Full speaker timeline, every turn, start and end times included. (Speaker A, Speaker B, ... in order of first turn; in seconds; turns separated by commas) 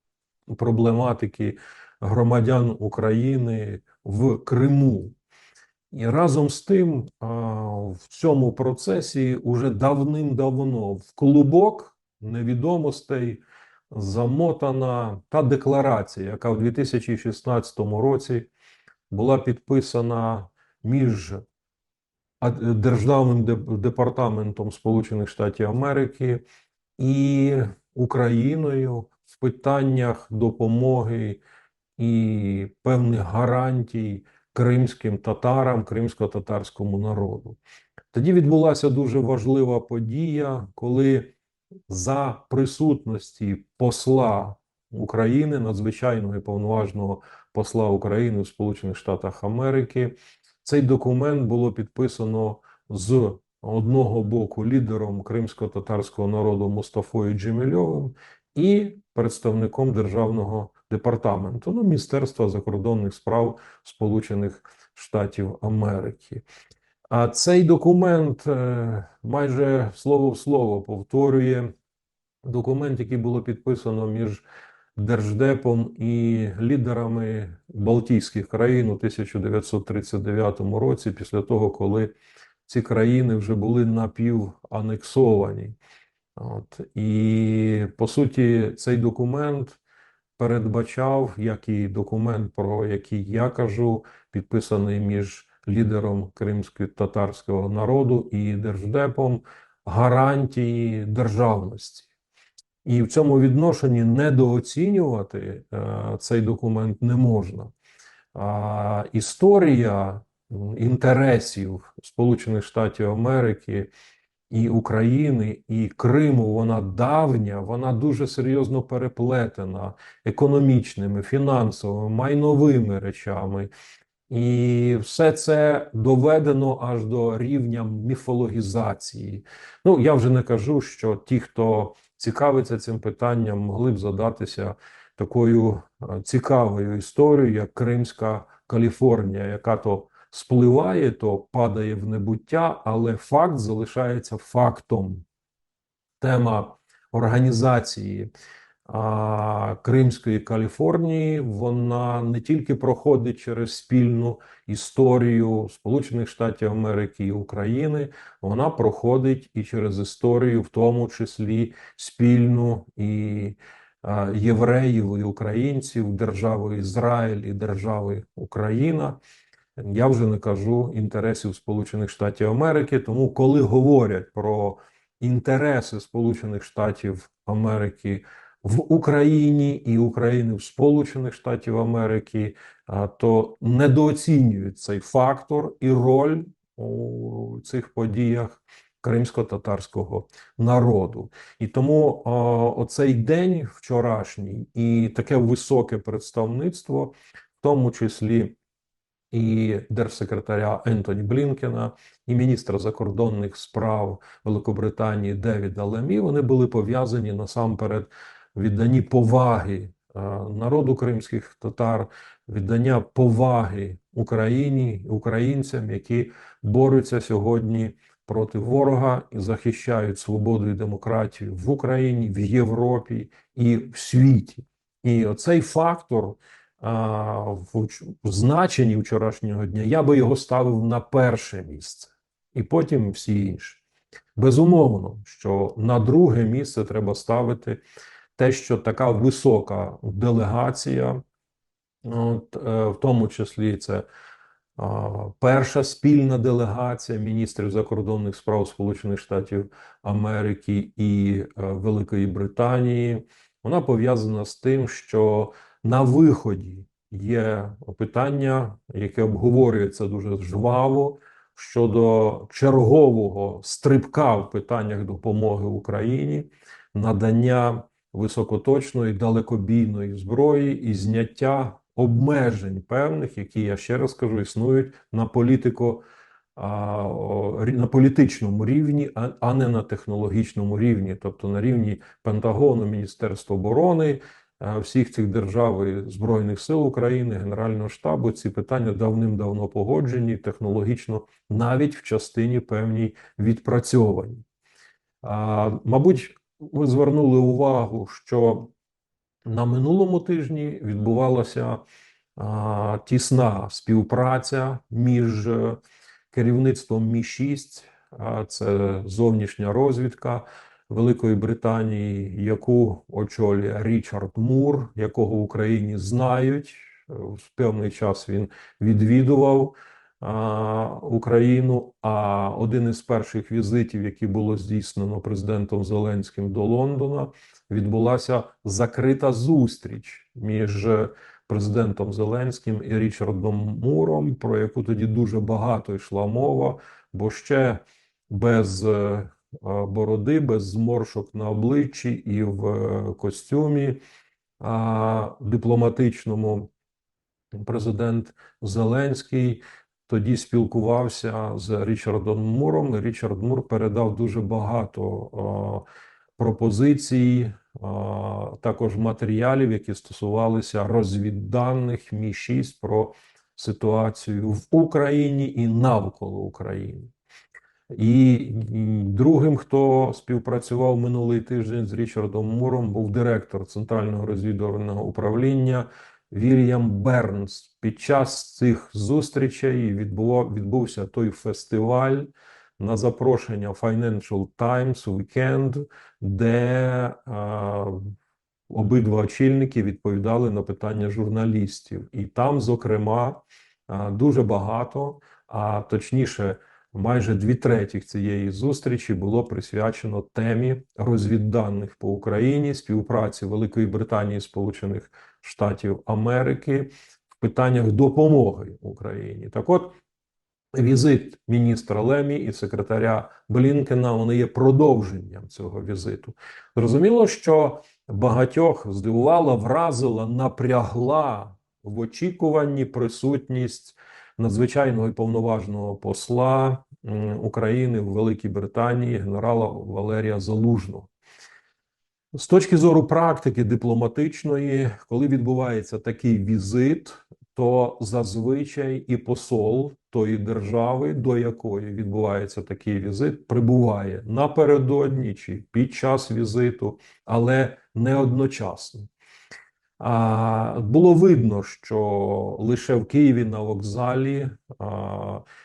Speaker A: 0.5-5.2, Speaker A: 5.9-18.5, Speaker A: 19.1-21.4, Speaker A: 22.4-26.4, Speaker A: 27.0-31.4, Speaker A: 32.0-37.6, Speaker A: 38.1-41.3, Speaker A: 41.9-66.4, Speaker A: 67.1-71.7, Speaker A: 72.4-74.4, Speaker A: 75.0-82.1, Speaker A: 82.7-85.8, Speaker A: 86.3-89.8, Speaker A: 90.4-102.1, Speaker A: 102.8-107.7, Speaker A: 108.3-113.9, Speaker A: 114.5-123.7, Speaker A: 124.3-145.2, Speaker A: 146.2-148.3, Speaker A: 148.8-169.2, Speaker A: 169.8-198.5, Speaker A: 199.3-233.8, Speaker A: 234.3-237.8, Speaker A: 238.3-241.2, Speaker A: 242.0-244.1, Speaker A: 244.8-276.0, Speaker A: 276.6-294.4, Speaker A: 295.2-298.7, Speaker A: 299.4-301.8, Speaker A: 302.4-305.8, Speaker A: 306.3-344.0, Speaker A: 344.6-346.7, Speaker A: 347.5-355.8, Speaker A: 356.4-367.1, Speaker A: 367.9-388.1, Speaker A: 388.7-410.0, Speaker A: 410.7-431.1, Speaker A: 432.3-449.1, Speaker A: 450.0-455.4